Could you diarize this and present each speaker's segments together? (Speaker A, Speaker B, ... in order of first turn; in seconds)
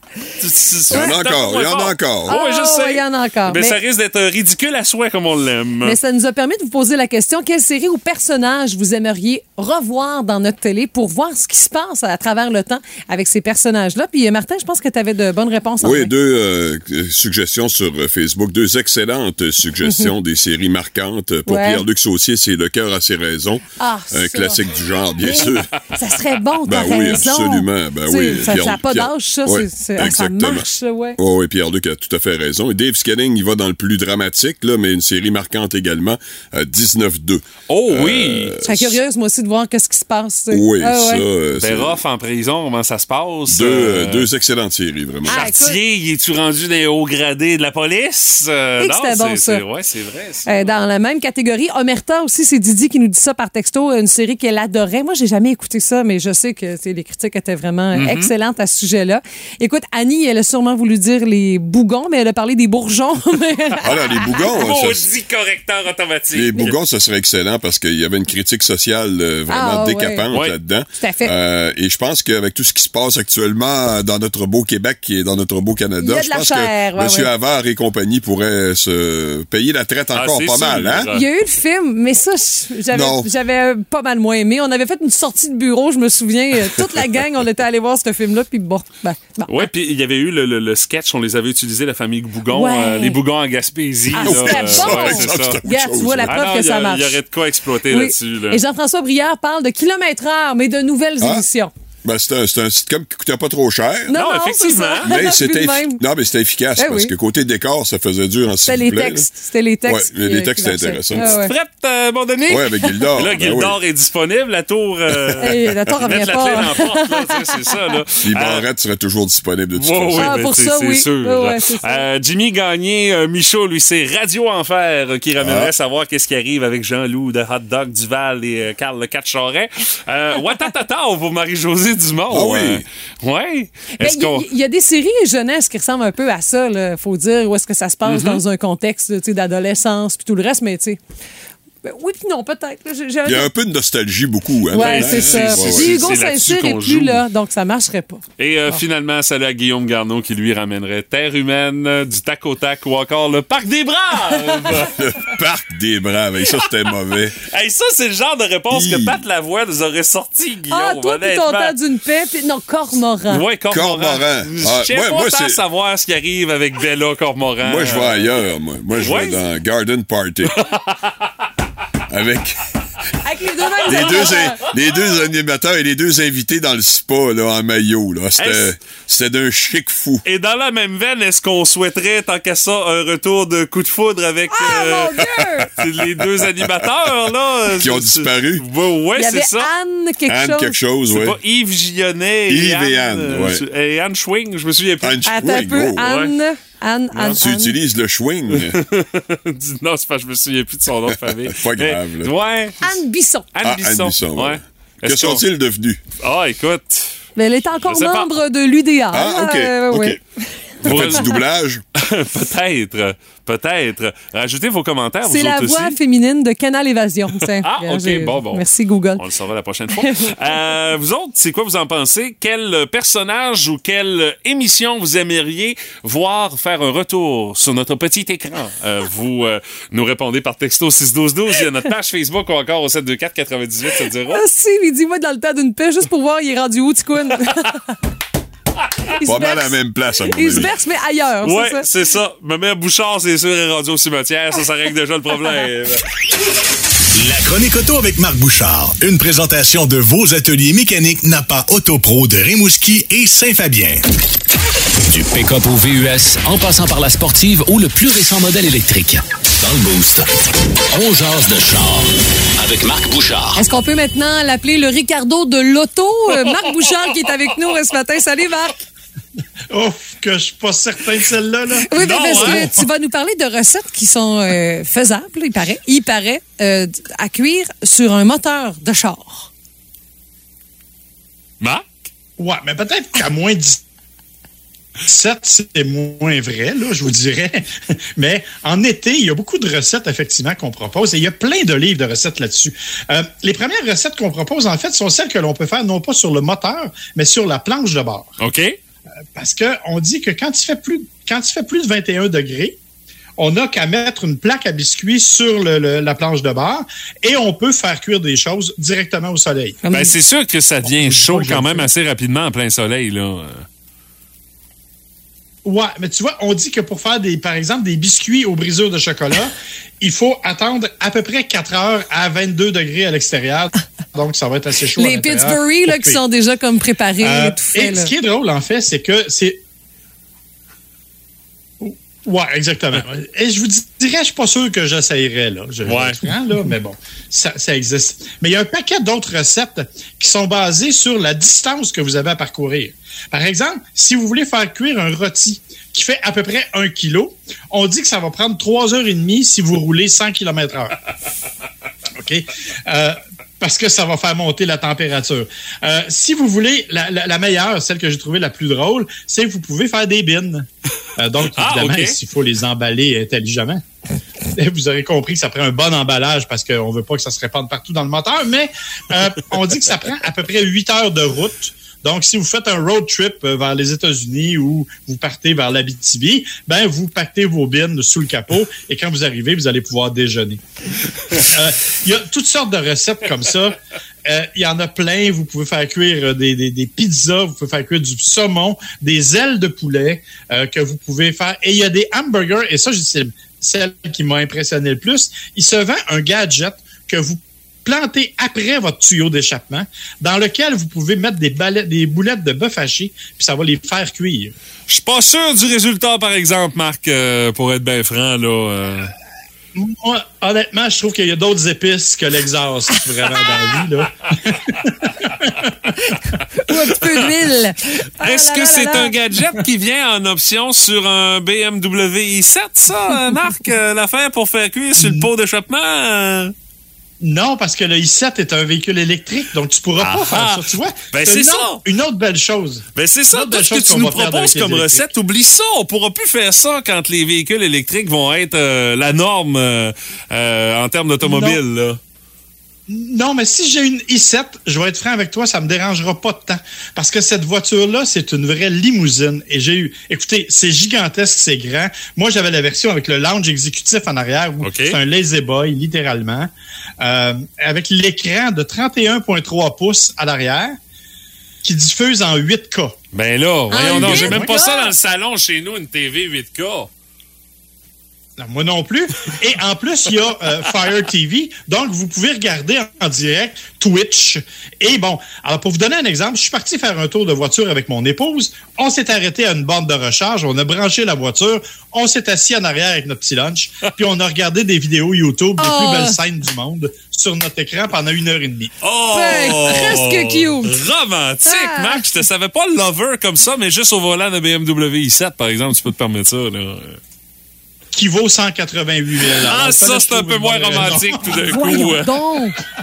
Speaker A: 0.4-6.0, 37.7-38.5, 41.6-44.3, 45.3-50.8, 57.9-58.3, 64.3-66.7, 70.3-70.6, 80.1-81.2, 89.5-95.6, 96.3-98.6, 104.1-105.2, 111.2-118.6, 119.8-134.5, 138.1-138.4, 144.7-147.2, 148.4-155.0, 157.4-161.7, 163.3-168.3, 169.0-169.4, 170.6-171.1, 173.9-174.4, 178.4-178.7, 180.2-189.7, 191.1-195.2, 196.0-196.3, 197.1-197.4, 198.5-202.9, 203.5-205.4, 206.2-207.1, 207.8-208.3, 210.8-211.4, 212.0-216.0, 217.6-218.6, 219.2-234.4, 241.4-246.0, 271.9-272.7, 281.6-281.9, 298.4-298.8, 309.9-313.7, 335.9-336.2, 361.5-362.2, 404.9-409.1, 418.2-426.5, 430.0-431.8, 432.9-442.0, 454.6-455.0, 463.1-466.9, 488.8-497.0, 499.4-502.2
Speaker B: 0.9-2.4, 15.8-25.7, 26.7-39.0, 40.5-42.0, 43.5-45.5, 63.8-65.1, 66.3-81.1, 82.9-83.3, 94.1-96.4, 101.2-101.5, 102.0-104.2, 105.0-109.3, 109.9-111.4, 112.5-113.8, 115.1-116.5, 118.2-120.4, 125.4-125.7, 132.3-132.8, 143.3-146.2, 154.9-157.4, 158.7-159.2, 163.7-165.6, 167.6-170.6, 172.1-172.6, 173.9-180.2, 187.8-188.7, 190.3-191.4, 192.5-193.6, 195.0-196.1, 197.3-198.8, 201.1-202.3, 203.6-206.0, 209.1-210.2, 210.8-211.8, 239.2-240.7
Speaker C: 2.3-3.8, 5.8-16.1, 19.8-20.1, 21.5-21.8, 23.8-24.6, 25.2-31.2, 38.6-41.2, 45.2-45.8, 48.8-49.6, 50.5-64.3, 69.5-70.3, 71.0-71.3, 76.0-77.3, 81.1-89.7, 92.5-93.2, 94.2-97.2, 97.9-101.7, 104.1-106.0, 106.8-107.1, 108.7-111.5, 115.4-117.4, 120.2-122.0, 134.0-141.0, 141.8-143.5, 144.7-148.8, 160.7-163.5, 173.2-174.7, 184.5-185.7, 189.2-190.8, 195.2-197.8, 202.8-203.5, 207.4-210.5, 211.0-211.4, 215.3-219.2, 234.3-238.0, 239.2-241.9, 263.6-268.8, 271.9-279.5, 309.9-310.1, 325.0-328.1, 416.6-419.1, 463.7-464.9, 485.6-486.2, 489.1-490.8, 491.5-492.1, 501.4-502.6
Speaker D: 247.2-254.0
Speaker E: 255.1-260.3, 260.9-263.6
Speaker F: 269.7-272.7, 282.4-283.8, 285.1-287.7, 288.2-298.4, 299.4-302.8, 303.4-309.8, 310.8-311.9, 315.6-326.2, 327.2-329.6, 331.8-351.0, 352.2-360.7, 361.2-363.8, 364.6-380.6, 381.4-404.5, 409.8-415.7, 425.0-425.3, 427.2-435.1, 441.2-441.6, 442.9-456.5, 457.0-460.8, 461.6-462.9, 463.8-464.5, 468.4-488.7, 497.9-501.6